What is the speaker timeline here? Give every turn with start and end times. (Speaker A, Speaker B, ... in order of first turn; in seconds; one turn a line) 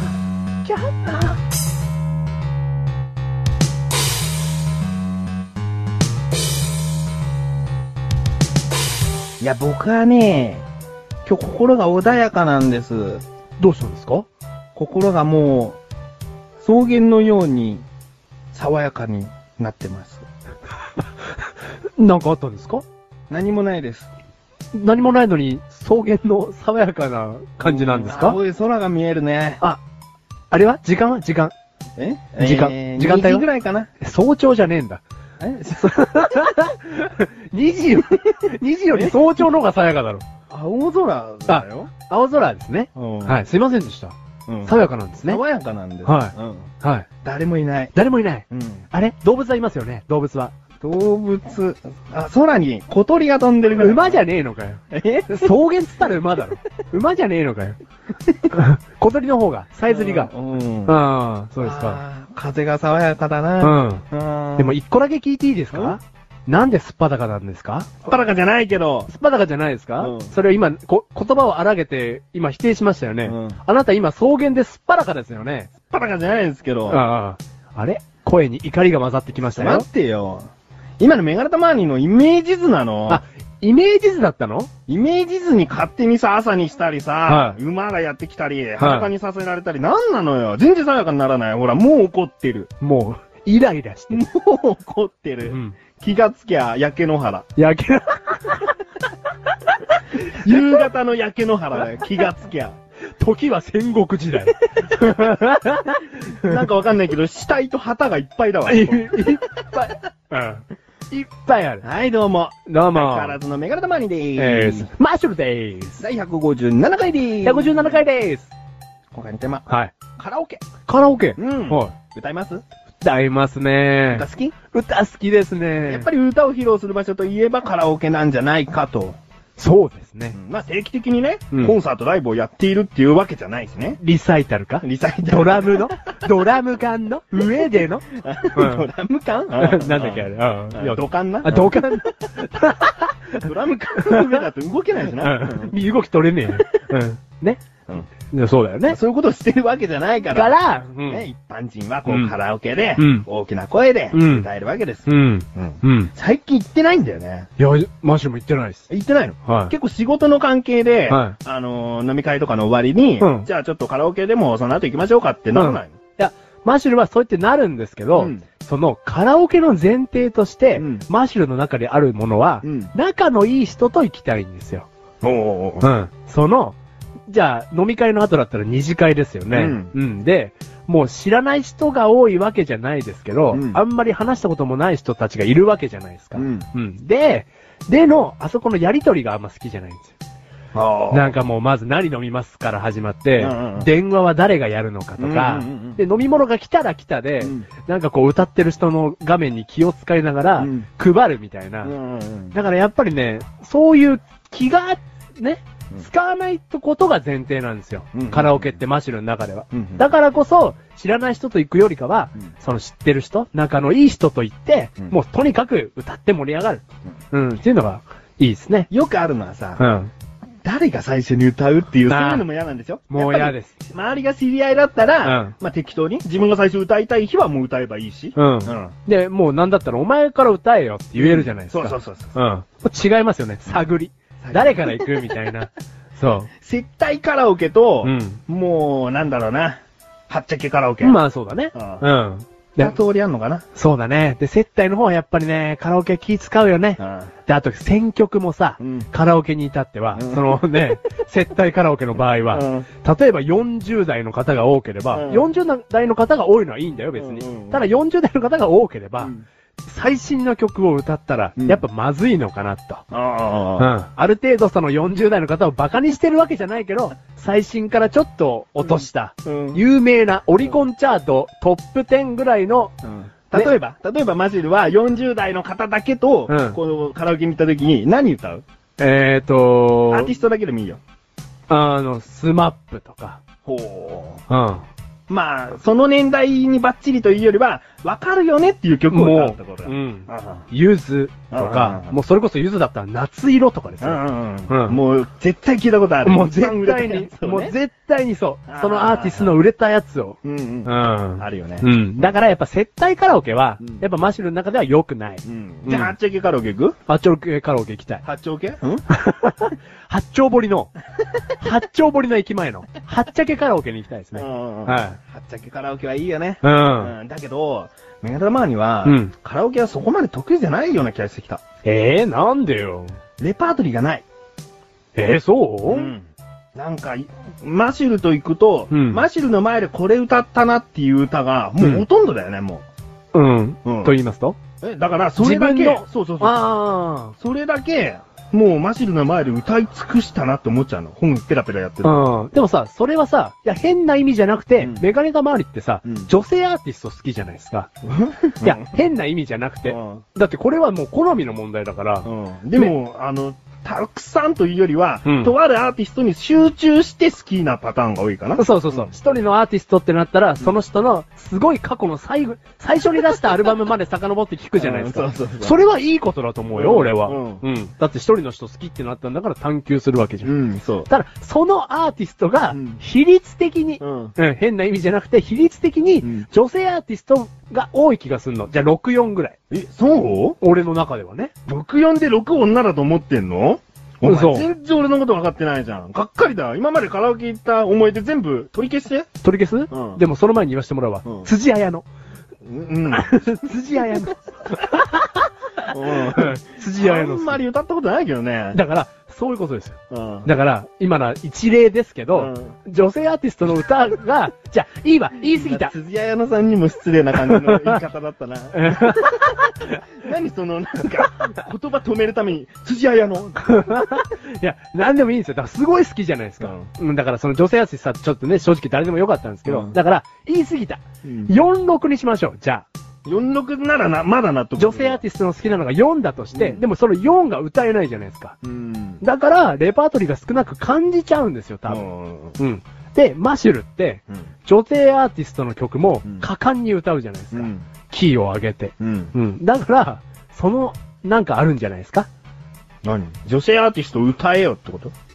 Speaker A: 0.7-1.3
Speaker A: 9.4-10.6
Speaker A: 11.2-13.2
Speaker B: 13.6-14.2
Speaker A: 14.7-15.8
Speaker A: 16.6-17.8
Speaker A: 18.5-20.2
Speaker B: 22.0-22.8
Speaker A: 23.3-24.1
Speaker B: 24.7-28.4
Speaker A: 27.6-29.6
Speaker B: 30.5-31.5
Speaker A: 32.0-33.9
Speaker B: 32.4-33.5
Speaker B: 34.0-35.0
Speaker A: 35.4-36.0
Speaker B: 35.8-40.2
Speaker A: 38.9-39.2
Speaker A: 40.5-41.9
Speaker B: 41.5-44.1
Speaker A: 42.9-43.4
Speaker A: 44.5-46.7
Speaker B: 44.6-45.4
Speaker B: 46.0-47.1
Speaker A: 47.2-47.9
Speaker B: 47.9-50.5
Speaker A: 48.5-48.9
Speaker A: 50.8-54.2
Speaker B: 53.8-57.8
Speaker A: 54.9-55.5
Speaker B: 58.5-60.3
Speaker A: 59.9-61.0
Speaker B: 60.9-62.0
Speaker A: 61.6-64.7
Speaker B: 63.6-64.0
Speaker B: 64.6-67.9
Speaker A: 65.7-66.0
Speaker A: 68.0-69.1
Speaker B: 69.1-75.7
Speaker A: 70.0-70.3
Speaker A: 73.2-73.6
Speaker A: 75.9-77.0
Speaker B: 76.9-79.8
Speaker A: 79.5-80.5
Speaker A: 81.0-83.2
Speaker B: 83.1-84.7
Speaker A: 84.9-92.7
Speaker B: 87.3-87.6
Speaker B: 88.8-89.1
Speaker B: 92.8-94.2
Speaker A: 94.1-97.5
Speaker B: 95.5-95.8
Speaker B: 97.5-98.7
Speaker B: 99.7-100.6
Speaker A: 100.2-102.8
Speaker B: 103.2-106.6
Speaker A: 106.3-109.9
Speaker B: 108.7-111.8
Speaker A: 111.8-114.9
Speaker B: 112.7-113.3
Speaker B: 114.4-116.0
Speaker A: 116.0-118.0
Speaker B: 117.4-118.5
Speaker A: 119.1-120.6
Speaker B: 119.7-119.9
Speaker B: 120.8-121.9
Speaker A: 121.4-122.6
Speaker B: 123.0-126.1
Speaker A: 124.1-124.5
Speaker A: 125.9-129.2
Speaker B: 129.6-130.4
Speaker A: 130.3-134.0
Speaker B: 134.0-138.9
Speaker A: 134.8-135.9
Speaker A: 137.4-141.9
Speaker B: 139.6-144.4
Speaker A: 143.4-145.7
Speaker B: 145.1-147.6
Speaker B: 148.3-149.0
Speaker A: 148.9-157.5
Speaker B: 150.3-151.2
Speaker B: 152.1-152.3
Speaker B: 153.0-153.2
Speaker B: 154.1-154.5
Speaker B: 155.1-156.1
Speaker B: 157.6-158.8
Speaker A: 158.9-166.0
Speaker B: 159.4-159.7
Speaker B: 161.1-161.3
Speaker B: 163.2-163.5
Speaker B: 165.5-174.9
Speaker A: 168.2-168.4
Speaker A: 170.8-171.0
Speaker A: 172.6-172.9
Speaker A: 175.2-175.9
Speaker B: 175.8-176.8
Speaker B: 177.3-190.1
Speaker A: 179.5-179.9
Speaker A: 183.5-183.8
Speaker A: 186.3-186.7
Speaker A: 190.7-191.3
Speaker B: 191.1-201.9
Speaker A: 193.4-193.9
Speaker A: 195.2-196.0
Speaker A: 197.4-197.7
Speaker A: 200.6-200.8
Speaker A: 201.8-202.6
Speaker B: 202.5-218.9
Speaker A: 208.1-208.8
Speaker A: 209.7-210.1
Speaker A: 218.9-219.8
Speaker B: 219.8-220.1
Speaker A: 220.6-228.9
Speaker B: 222.1-222.4
Speaker B: 223.1-223.7
Speaker B: 225.2-225.5
Speaker B: 228.3-236.5
Speaker A: 231.2-232.4
Speaker A: 234.4-235.2
Speaker A: 236.6-241.2
Speaker B: 238.0-238.4
Speaker B: 241.0-242.9
Speaker A: 241.7-242.0
Speaker A: 242.8-243.6
Speaker B: 243.7-259.3
Speaker A: 247.0-247.3
Speaker A: 248.8-249.1
Speaker A: 250.1-250.6
Speaker A: 252.5-252.9
Speaker A: 255.1-255.5
Speaker A: 257.1-257.9
Speaker A: 259.2-259.4
Speaker B: 259.8-263.0
Speaker A: 261.6-261.8
Speaker A: 263.1-263.9
Speaker B: 263.8-272.9
Speaker A: 268.8-269.8
Speaker A: 273.0-278.6
Speaker B: 276.5-276.8
Speaker B: 279.0-280.3
Speaker A: 280.1-281.0
Speaker B: 281.7-283.4
Speaker A: 283.6-284.4
Speaker B: 284.5-284.9
Speaker A: 285.3-290.7
Speaker B: 289.1-295.0
Speaker A: 291.5-292.1
Speaker A: 294.0-297.7
Speaker B: 296.2-306.1
Speaker A: 298.7-299.5
Speaker A: 300.4-301.9
Speaker A: 305.4-306.9
Speaker B: 307.1-308.2
Speaker A: 308.2-309.0
Speaker B: 309.1-310.9
Speaker B: 311.6-315.2
Speaker A: 314.3-321.6
Speaker B: 316.6-317.1
Speaker B: 319.0-319.3
Speaker B: 321.8-323.1
Speaker A: 323.4-324.2
Speaker B: 325.1-326.1
Speaker A: 325.9-332.9
Speaker B: 328.9-329.2
Speaker B: 331.8-332.0
Speaker B: 333.3-334.6
Speaker A: 333.8-334.1
Speaker A: 334.8-336.7
Speaker B: 335.4-337.3
Speaker A: 337.4-342.2
Speaker B: 342.0-347.9
Speaker A: 344.8-345.1
Speaker A: 346.0-346.3
Speaker A: 348.0-348.9
Speaker B: 348.6-352.9
Speaker A: 349.9-350.2
Speaker A: 352.2-359.1
Speaker B: 355.2-355.5
Speaker B: 358.6-370.5
Speaker A: 364.8-365.8
Speaker A: 366.7-367.6
Speaker A: 370.4-371.1
Speaker B: 371.1-379.6
Speaker A: 372.7-373.0
Speaker A: 374.0-374.3
Speaker A: 379.7-380.6
Speaker B: 380.6-381.5
Speaker A: 381.7-389.3
Speaker B: 384.2-384.7
Speaker B: 389.4-392.1
Speaker A: 389.9-390.2
Speaker A: 391.2-391.5
Speaker A: 392.6-393.4
Speaker B: 393.1-397.6
Speaker A: 395.9-398.8
Speaker B: 398.7-405.9
Speaker A: 400.1-400.5
Speaker A: 402.3-402.8
Speaker A: 405.4-413.9
Speaker B: 407.5-408.0
Speaker B: 408.7-410.0
Speaker B: 413.6-422.9
Speaker A: 416.6-416.9
Speaker A: 419.6-419.9
Speaker A: 421.2-421.5
Speaker A: 423.2-425.2
Speaker B: 424.8-428.5
Speaker A: 426.5-426.8
Speaker A: 428.6-429.2
Speaker B: 429.2-432.1
Speaker A: 431.9-432.6
Speaker B: 432.6-442.3
Speaker A: 437.5-437.9
Speaker A: 439.0-439.3
Speaker A: 443.0-445.1